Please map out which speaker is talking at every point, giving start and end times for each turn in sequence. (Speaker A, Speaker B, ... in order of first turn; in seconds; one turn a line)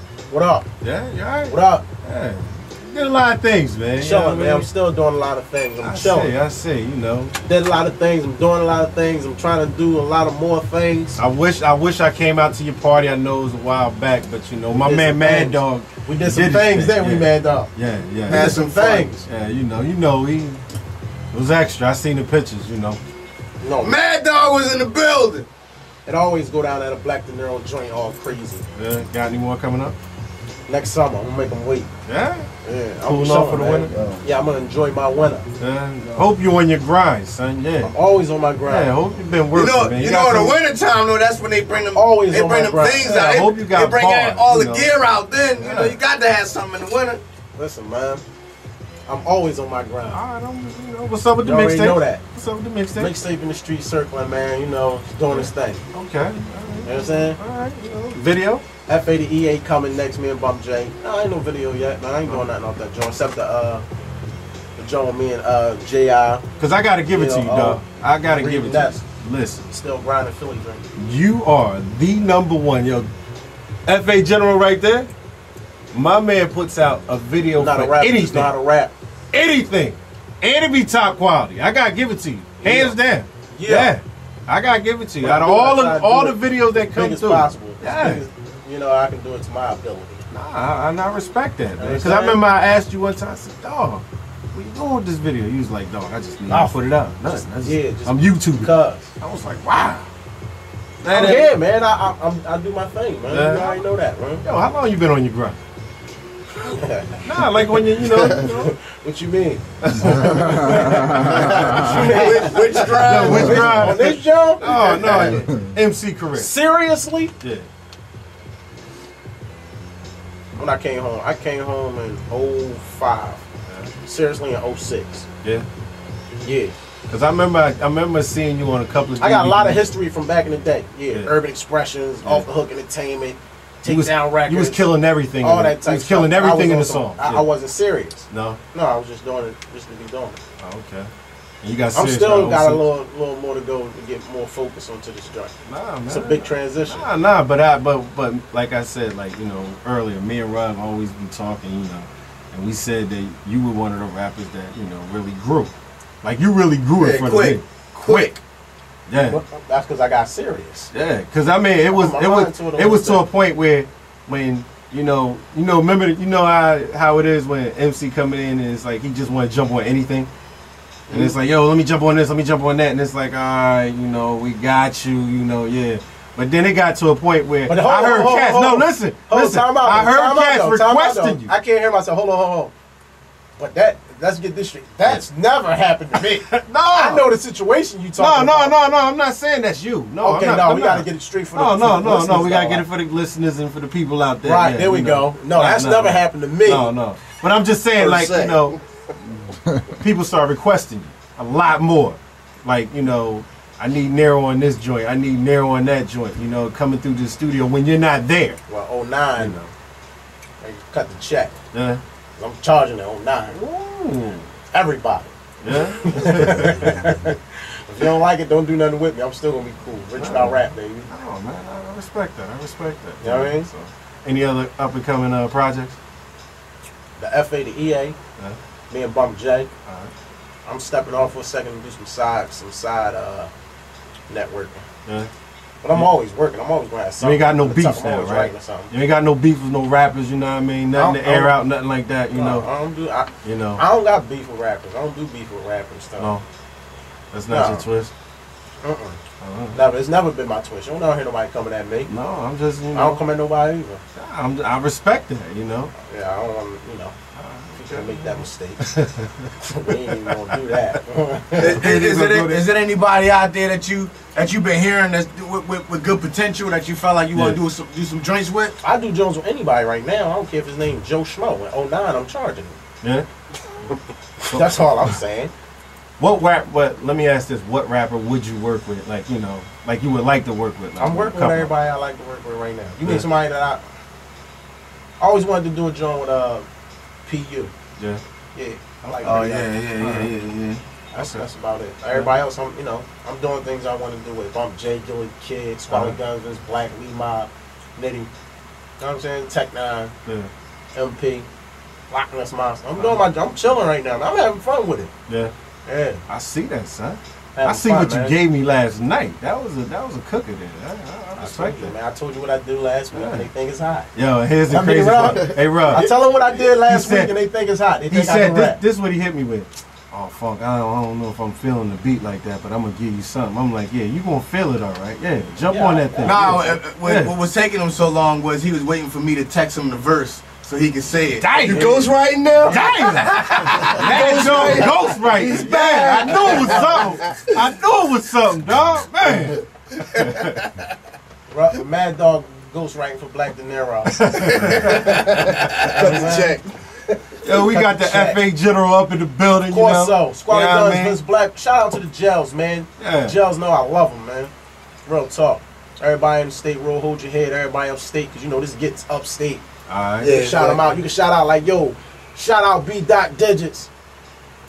Speaker A: 0.3-0.7
Speaker B: 0.8-4.7
Speaker A: 1.5-1.9
Speaker A: 4.0-6.3
Speaker B: 5.8-7.3
Speaker A: 7.4-11.2
Speaker B: 11.2-18.6
Speaker A: 14.7-17.7
Speaker A: 18.3-19.3
Speaker C: 18.3-19.1
Speaker B: 19.2-20.6
Speaker B: 21.3-23.0
Speaker A: 23.6-24.0
Speaker C: 23.8-25.5
Speaker A: 26.1-28.6
Speaker B: 28.8-30.0
Speaker A: 30.7-31.9
Speaker B: 32.1-32.5
Speaker A: 32.6-35.5
Speaker B: 33.1-33.9
Speaker B: 35.6-37.9
Speaker A: 37.8-38.9
Speaker B: 38.6-40.6
Speaker C: 39.5-47.2
Speaker A: 41.9-43.5
Speaker B: 43.0-45.0
Speaker B: 45.6-46.0
Speaker A: 47.5-48.2
Speaker A: 49.1-50.2
Speaker B: 50.1-53.1
Speaker A: 51.4-52.2
Speaker A: 53.0-55.8
Speaker B: 55.3-58.6
Speaker A: 56.9-57.4
Speaker A: 58.9-63.8
Speaker A: 64.8-66.4
Speaker B: 66.6-69.7
Speaker A: 67.1-69.0
Speaker A: 69.7-70.8
Speaker B: 71.0-73.1
Speaker B: 73.9-75.1
Speaker B: 75.9-78.5
Speaker A: 77.6-78.9
Speaker B: 79.3-88.2
Speaker A: 82.6-83.0
Speaker A: 83.5-84.0
Speaker A: 85.2-90.2
Speaker B: 90.3-100.1
Speaker A: 91.8-92.4
Speaker A: 97.6-99.1
Speaker B: 101.0-101.5
Speaker A: 101.1-104.4
Speaker B: 103.3-103.8
Speaker B: 104.4-105.6
Speaker A: 106.6-115.4
Speaker B: 107.2-108.8
Speaker B: 109.8-112.2
Speaker C: 111.8-114.0
Speaker B: 113.0-116.5
Speaker A: 116.3-117.3
Speaker B: 117.4-117.7
Speaker A: 120.6-123.4
Speaker B: 123.7-123.9
Speaker A: 124.0-125.3
Speaker A: 126.4-126.7
Speaker B: 127.1-129.8
Speaker A: 129.2-140.4
Speaker B: 133.9-137.4
Speaker B: 138.3-138.6
Speaker B: 140.6-141.1
Speaker B: 141.6-142.8
Speaker A: 141.9-147.1
Speaker B: 145.7-158.4
Speaker C: 157.0-158.3
Speaker B: 159.1-159.4
Speaker A: 159.3-160.9
Speaker B: 160.9-170.3
Speaker A: 161.9-163.3
Speaker A: 171.1-171.3
Speaker B: 171.1-181.5
Speaker A: 177.7-182.7
Speaker A: 183.6-188.8
Speaker B: 186.2-187.2
Speaker B: 188.2-208.6
Speaker A: 190.2-192.9
Speaker A: 194.4-196.9
Speaker C: 198.0-198.5
Speaker A: 208.7-209.6
Speaker B: 209.4-209.7
Speaker A: 210.6-211.6
Speaker B: 211.7-212.0
Speaker A: 212.4-213.6
Speaker B: 213.5-214.5
Speaker A: 214.7-221.1
Speaker B: 215.6-216.9
Speaker B: 220.2-220.6
Speaker B: 221.1-226.0
Speaker A: 223.2-223.7
Speaker A: 227.2-228.2
Speaker A: 228.9-229.7
Speaker B: 229.9-230.1
Speaker A: 230.7-233.5
Speaker A: 234.3-234.8
Speaker A: 235.8-238.9
Speaker B: 237.2-242.7
Speaker A: 240.9-241.6
Speaker A: 242.3-246.3
Speaker B: 243.4-243.8
Speaker B: 246.2-246.4
Speaker B: 247.3-248.1
Speaker A: 247.5-247.9
Speaker A: 248.8-249.2
Speaker B: 249.4-249.8
Speaker A: 249.7-252.1
Speaker B: 252.1-253.2
Speaker A: 252.9-254.0
Speaker B: 254.2-255.9
Speaker A: 256.1-257.1
Speaker B: 257.4-260.3
Speaker A: 257.8-258.9
Speaker A: 259.6-261.9
Speaker C: 261.6-268.8
Speaker B: 261.7-262.6
Speaker B: 267.3-267.6
Speaker A: 268.8-272.8
Speaker A: 273.8-275.5
Speaker B: 274.5-275.1
Speaker B: 276.2-281.7
Speaker A: 281.0-283.8
Speaker A: 285.2-286.7
Speaker A: 287.3-287.7
Speaker A: 288.6-290.2
Speaker C: 289.2-290.8
Speaker B: 290.0-290.3
Speaker A: 291.1-298.3
Speaker B: 291.2-291.4
Speaker B: 295.9-296.2
Speaker A: 299.0-300.1
Speaker B: 300.2-300.5
Speaker A: 300.9-301.5
Speaker A: 302.1-305.1
Speaker B: 303.0-303.2
Speaker A: 305.9-306.2
Speaker B: 306.3-311.9
Speaker A: 307.6-308.4
Speaker A: 311.4-314.1
Speaker B: 313.1-313.5
Speaker B: 314.1-316.1
Speaker A: 314.7-318.8
Speaker B: 316.8-317.3
Speaker B: 318.1-327.3
Speaker A: 325.7-326.7
Speaker C: 326.2-337.1
Speaker B: 331.4-332.0
Speaker A: 331.6-337.1
Speaker B: 332.6-340.6
Speaker A: 341.5-346.6
Speaker B: 344.1-346.4
Speaker C: 345.5-346.7
Speaker A: 347.4-348.4
Speaker B: 347.4-351.2
Speaker A: 349.7-354.5
Speaker B: 353.0-353.4
Speaker A: 355.1-359.6
Speaker B: 359.9-360.3
Speaker C: 360.2-360.9
Speaker A: 360.2-363.9